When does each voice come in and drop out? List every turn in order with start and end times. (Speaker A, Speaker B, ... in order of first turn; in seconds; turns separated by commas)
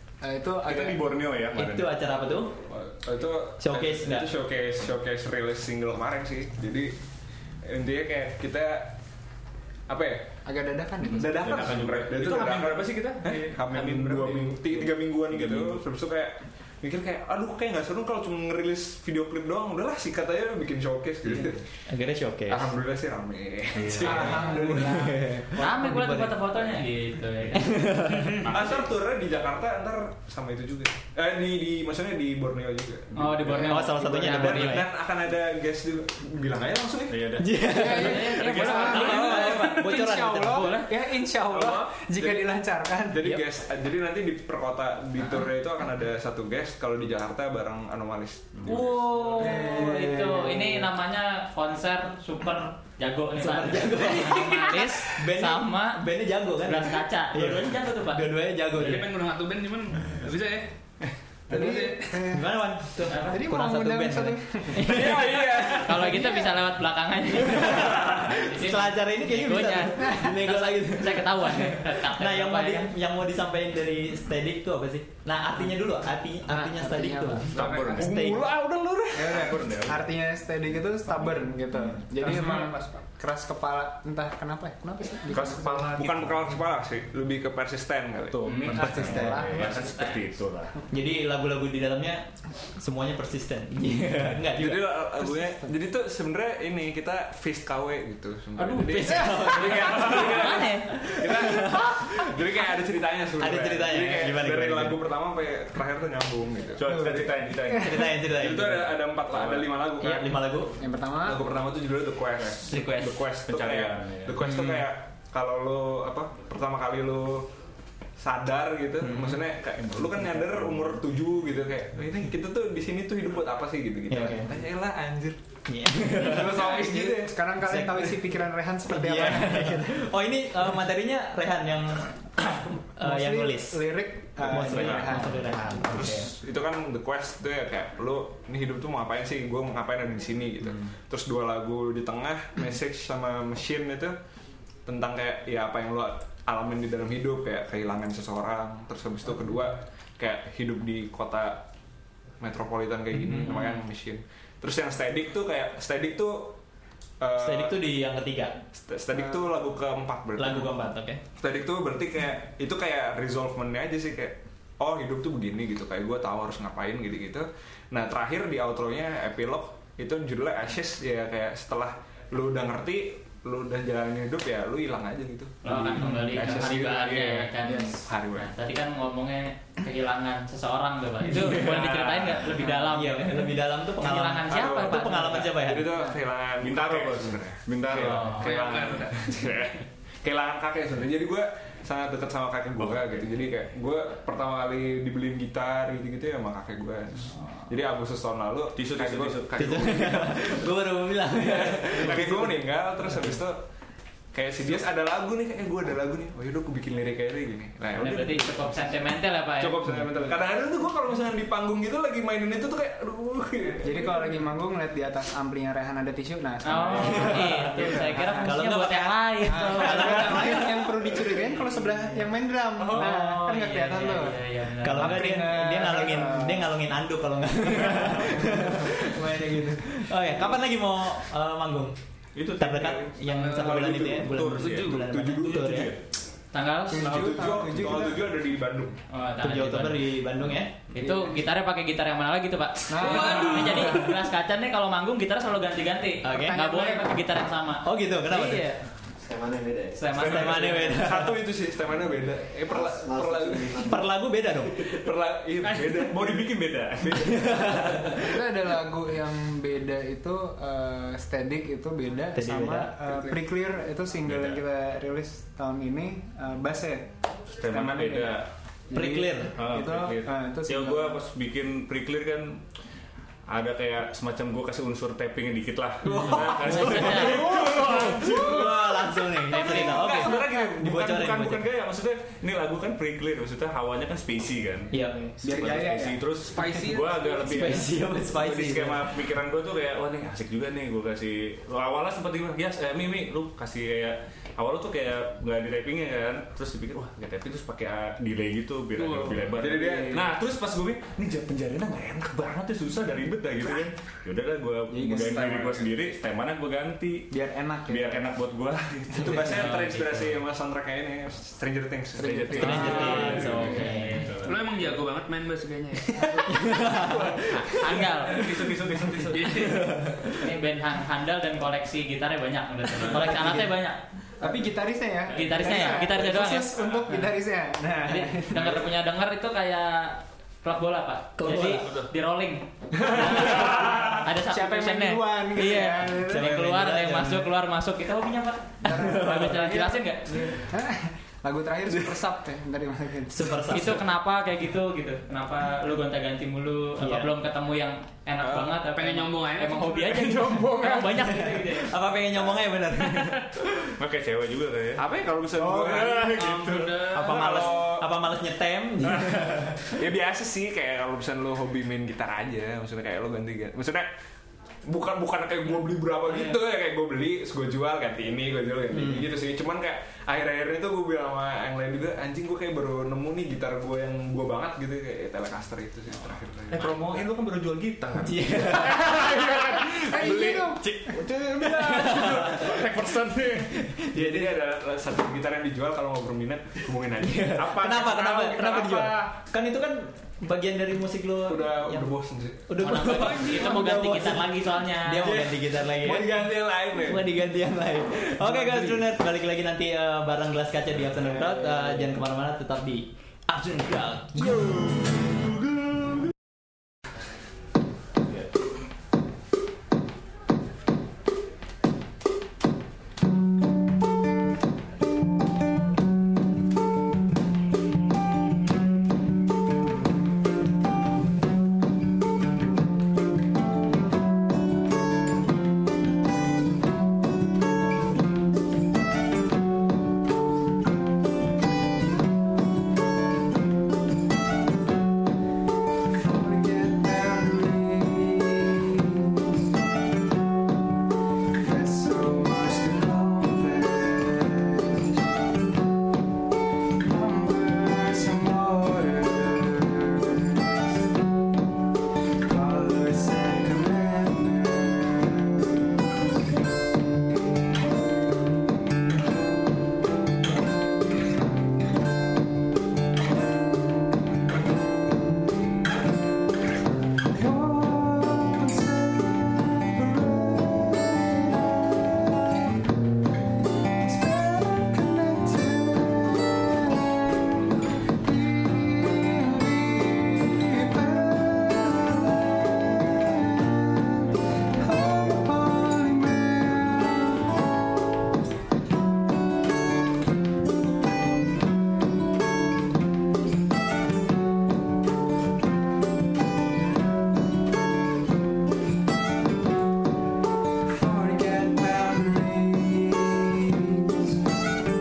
Speaker A: 0.2-1.1, Speaker B: 0.6-1.9, Speaker C: 1.5-2.5, Speaker D: 2.7-7.0, Speaker C: 3.6-4.3, Speaker D: 7.6-8.9, Speaker D: 9.9-10.3, Speaker A: 10.4-11.5, Speaker B: 11.0-15.8, Speaker D: 11.1-21.6, Speaker C: 21.9-22.7, Speaker D: 22.5-25.2, Speaker B: 23.8-24.4, Speaker A: 23.9-25.4, Speaker C: 24.5-26.4, Speaker E: 25.6-28.0, Speaker C: 27.5-28.4, Speaker B: 28.4-28.9, Speaker D: 28.5-37.4, Speaker E: 33.1-34.8, Speaker C: 33.6-34.9, Speaker B: 37.1-39.5, Speaker C: 37.4-40.9, Speaker A: 37.6-43.4, Speaker E: 37.8-40.9, Speaker D: 41.5-42.5, Speaker D: 43.1-49.2, Speaker B: 48.5-48.9, Speaker E: 48.7-56.0, Speaker A: 49.3-50.9, Speaker C: 53.4-59.1, Speaker E: 56.6-58.9, Speaker F: 58.8-60.7, Speaker F: 61.5-62.2, Speaker A: 61.5-62.6, Speaker C: 62.2-65.6, Speaker E: 63.1-63.4, Speaker A: 63.3-65.0, Speaker D: 64.8-66.1, Speaker E: 65.7-72.9, Speaker A: 66.1-66.5, Speaker C: 67.4-78.5, Speaker A: 70.0-70.3, Speaker A: 76.5-77.9, Speaker B: 77.5-80.1, Speaker F: 77.5-78.0, Speaker A: 79.1-86.0, Speaker F: 82.3-82.7, Speaker B: 85.3-86.6, Speaker D: 85.9-88.9, Speaker B: 88.3-90.8, Speaker A: 88.6-89.8, Speaker C: 88.8-89.5, Speaker E: 89.5-90.2, Speaker C: 90.9-95.0, Speaker D: 94.5-107.0, Speaker A: 95.2-95.7, Speaker C: 98.6-102.3, Speaker E: 100.1-100.9, Speaker C: 103.4-105.0, Speaker B: 106.8-108.2, Speaker A: 106.8-108.0, Speaker C: 107.8-108.9, Speaker D: 108.2-110.4, Speaker B: 109.3-109.7, Speaker C: 110.0-110.7, Speaker A: 110.8-111.4, Speaker D: 111.2-117.5, Speaker E: 112.7-113.1, Speaker B: 113.5-114.6, Speaker C: 114.4-114.8, Speaker D: 118.2-125.4, Speaker C: 119.0-119.4, Speaker B: 119.8-121.0, Speaker C: 124.1-124.5, Speaker C: 125.7-126.8, Speaker A: 126.2-130.0, Speaker D: 126.3-127.2, Speaker C: 127.6-133.9, Speaker A: 133.0-135.5, Speaker C: 134.4-136.3, Speaker D: 134.5-135.2, Speaker D: 135.9-144.2, Speaker D: 144.9-151.6, Speaker D: 152.4-156.6, Speaker D: 157.2-157.8, Speaker C: 157.4-158.6, Speaker D: 158.7-160.7, Speaker C: 160.4-161.2, Speaker D: 161.4-178.5, Speaker E: 175.6-185.5, Speaker C: 175.9-176.5, Speaker C: 181.3-181.7, Speaker B: 181.4-182.4, Speaker C: 182.5-186.0, Speaker D: 184.5-200.6, Speaker B: 186.6-189.1, Speaker E: 188.0-188.5, Speaker F: 188.4-189.3, Speaker B: 198.8-199.9, Speaker C: 199.6-202.6, Speaker D: 201.4-203.6, Speaker B: 201.9-202.5, Speaker D: 204.3-208.9, Speaker E: 208.0-209.8, Speaker D: 209.6-214.4, Speaker A: 213.8-218.6, Speaker E: 216.6-220.6, Speaker C: 216.9-221.4, Speaker A: 219.5-224.4, Speaker B: 222.8-223.1, Speaker E: 222.8-225.3, Speaker C: 224.8-231.9, Speaker A: 224.9-226.7, Speaker A: 228.0-229.8, Speaker B: 232.3-236.0, Speaker C: 232.6-235.9, Speaker F: 233.3-235.0, Speaker D: 234.9-235.9, Speaker E: 236.5-237.3, Speaker A: 236.9-238.3, Speaker D: 236.9-239.0, Speaker E: 239.1-240.1, Speaker C: 239.4-240.8, Speaker E: 240.9-248.8, Speaker A: 242.9-243.9, Speaker F: 243.0-244.1, Speaker C: 246.2-246.6, Speaker A: 246.4-247.1, Speaker C: 247.8-248.7, Speaker G: 249.2-250.1, Speaker E: 249.9-250.9, Speaker C: 250.1-251.4, Speaker D: 250.2-253.9, Speaker G: 252.7-254.0, Speaker C: 253.8-254.9, Speaker D: 254.8-257.4, Speaker B: 255.6-258.1, Speaker C: 257.1-258.2, Speaker A: 258.1-267.1, Speaker C: 262.3-263.0, Speaker B: 264.2-264.6, Speaker B: 267.6-268.5, Speaker A: 267.6-271.2, Speaker C: 268.9-269.5, Speaker B: 269.6-272.6, Speaker B: 273.5-307.3, Speaker C: 276.1-281.6, Speaker E: 276.6-277.4, Speaker A: 277.4-278.4, Speaker C: 284.9-285.3, Speaker A: 285.4-286.3, Speaker F: 286.5-287.6, Speaker C: 287.4-289.1, Speaker F: 298.9-299.9, Speaker D: 299.6-300.2, Speaker A: 304.9-305.4, Speaker D: 305.3-305.9, Speaker A: 307.3-308.3, Speaker B: 307.9-310.3, Speaker D: 309.2-313.2, Speaker E: 309.4-310.1, Speaker B: 312.1-314.6, Speaker A: 312.1-313.7, Speaker C: 312.5-314.3, Speaker E: 312.7-314.3, Speaker F: 314.4-316.5, Speaker A: 316.1-316.5, Speaker C: 316.5-317.4, Speaker B: 317.1-317.4, Speaker E: 317.5-318.4, Speaker B: 318.3-319.7, Speaker F: 319.3-319.9, Speaker C: 319.6-320.0, Speaker E: 320.4-324.0, Speaker A: 323.3-323.7, Speaker C: 323.4-323.7, Speaker A: 324.4-328.9, Speaker E: 325.3-326.8, Speaker E: 328.1-340.5, Speaker C: 331.4-331.9, Speaker B: 331.8-332.1, Speaker A: 333.4-336.6, Speaker C: 336.0-337.5, Speaker C: 338.8-339.7, Speaker A: 338.8-343.7, Speaker C: 343.3-344.1, Speaker E: 343.7-351.9, Speaker C: 347.0-347.3, Speaker D: 348.4-348.7, Speaker F: 348.8-351.1, Speaker C: 351.1-353.4, Speaker B: 353.9-355.0, Speaker D: 355.0-356.4, Speaker B: 355.6-357.3, Speaker F: 356.3-357.6, Speaker C: 357.1-359.8, Speaker D: 357.2-358.1, Speaker D: 359.8-364.1, Speaker D: 364.9-377.2, Speaker C: 368.9-369.2, Speaker B: 376.7-383.7, Speaker C: 378.2-379.7, Speaker A: 380.0-381.2, Speaker C: 381.6-382.9, Speaker C: 383.6-384.5, Speaker D: 384.1-387.7, Speaker C: 387.2-392.1, Speaker B: 387.6-389.3, Speaker D: 391.4-392.8, Speaker C: 392.7-404.6, Speaker E: 392.8-395.4, Speaker F: 393.0-393.9, Speaker D: 395.2-397.3, Speaker D: 398.6-399.0, Speaker A: 436.1-439.1, Speaker A: 441.6-444.7, Speaker A: 447.0-450.6, Speaker A: 452.5-454.9, Speaker A: 467.3-471.6, Speaker A: 474.0-476.6, Speaker A: 478.2-483.8, Speaker A: 484.8-487.2, Speaker A: 501.0-503.7